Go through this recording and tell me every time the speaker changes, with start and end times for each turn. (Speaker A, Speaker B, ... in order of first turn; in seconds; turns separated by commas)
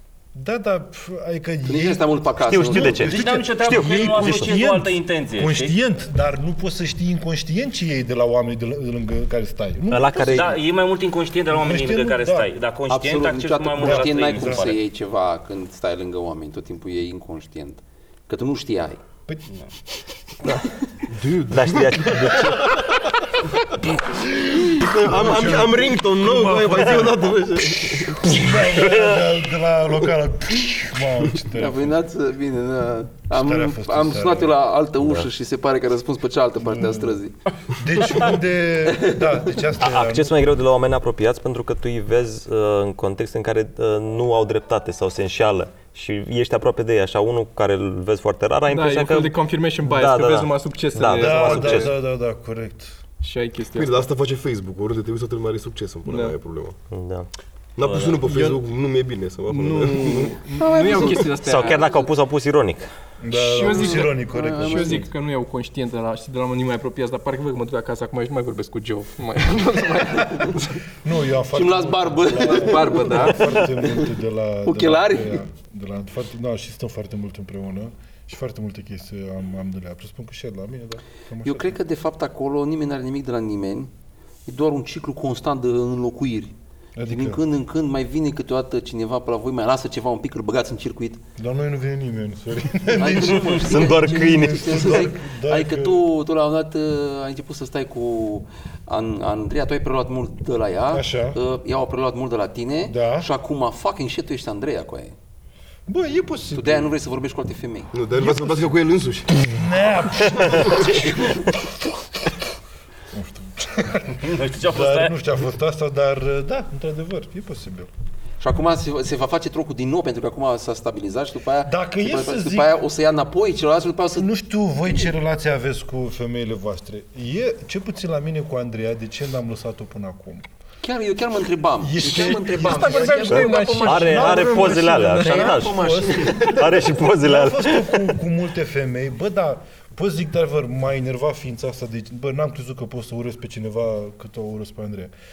Speaker A: 0.3-10.5, Speaker B: 1.6-3.1, Speaker C: 2.4-4.6, Speaker D: 2.9-5.8, Speaker C: 9.9-10.6, Speaker D: 10.1-14.8, Speaker A: 11.5-12.5, Speaker B: 12.9-19.0, Speaker A: 13.8-14.7, Speaker E: 21.1-22.7, Speaker C: 21.5-22.7, Speaker A: 22.1-22.9, Speaker A: 24.1-27.3, Speaker E: 24.6-28.5, Speaker A: 27.8-32.0, Speaker B: 31.5-37.3, Speaker A: 33.3-34.5, Speaker C: 35.0-35.3, Speaker A: 36.6-37.2, Speaker A: 37.7-40.4, Speaker B: 38.0-38.3, Speaker B: 38.9-39.3, Speaker C: 39.8-51.9, Speaker F: 48.7-52.0, Speaker A: 51.2-53.0, Speaker F: 53.2-54.1, Speaker E: 53.7-56.8, Speaker F: 56.0-56.4, Speaker C: 56.9-57.3, Speaker E: 57.8-60.4, Speaker D: 57.8-58.2, Speaker F: 58.2-58.6, Speaker F: 59.5-62.0, Speaker B: 60.5-61.9, Speaker C: 61.3-62.9, Speaker A: 63.2-65.1, Speaker F: 63.3-70.7, Speaker B: 63.6-65.1, Speaker B: 70.1-70.4, Speaker A: 71.0-81.8, Speaker B: 71.5-74.1, Speaker F: 72.4-73.6, Speaker B: 74.6-75.4, Speaker B: 81.4-83.9, Speaker B: 84.5-86.5, Speaker A: 87.0-87.4, Speaker B: 87.1-91.2, Speaker A: 91.4-96.0, Speaker B: 92.9-105.1, Speaker C: 93.6-95.1, Speaker A: 100.9-101.4, Speaker A: 102.9-103.3, Speaker A: 105.9-106.9, Speaker B: 106.5-107.9, Speaker E: 107.9-111.1, Speaker A: 109.5-112.5, Speaker B: 110.9-111.5, Speaker A: 113.1-117.9, Speaker D: 114.2-115.2, Speaker B: 118.4-124.3, Speaker A: 121.6-122.8, Speaker A: 124.2-130.4, Speaker B: 130.8-136.7, Speaker A: 131.8-145.1, Speaker F: 132.1-136.8, Speaker C: 133.2-138.1